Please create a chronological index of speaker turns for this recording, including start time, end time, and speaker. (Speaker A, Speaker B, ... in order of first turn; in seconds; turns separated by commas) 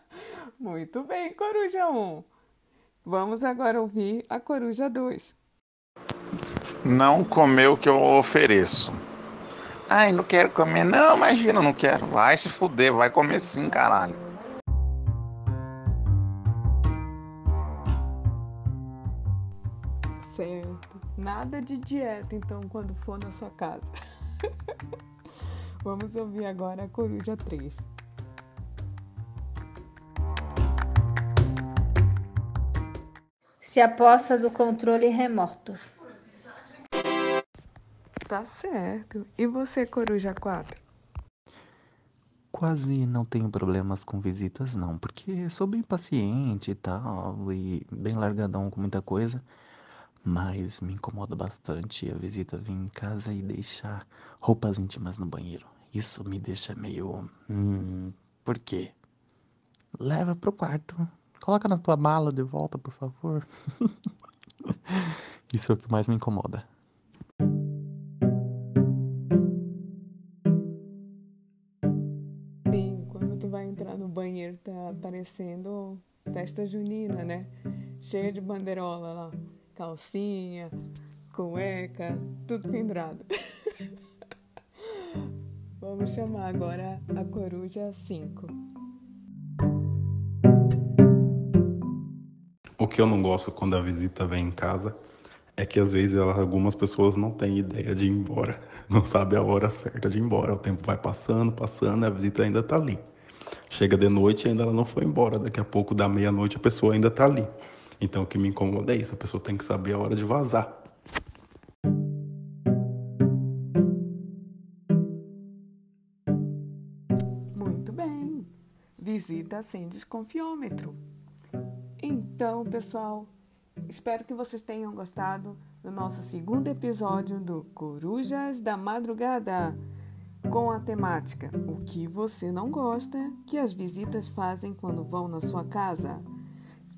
Speaker A: 0.6-2.3, Speaker A: 3.0-5.3, Speaker B: 6.8-9.0, Speaker B: 9.9-14.2, Speaker A: 20.2-23.9, Speaker A: 25.8-27.9, Speaker C: 33.6-35.8, Speaker A: 38.3-40.8, Speaker D: 42.5-49.5, Speaker D: 50.2-58.9, Speaker D: 60.0-63.9, Speaker D: 64.7-66.7, Speaker A: 72.7-80.7, Speaker A: 81.3-83.7, Speaker A: 85.8-88.5, Speaker E: 92.8-95.0, Speaker E: 95.6-103.0, Speaker E: 103.7-107.5, Speaker E: 108.0-110.7, Speaker A: 117.5-121.0, Speaker A: 122.0-123.3, Speaker A: 123.9-129.8, Speaker A: 130.5-136.3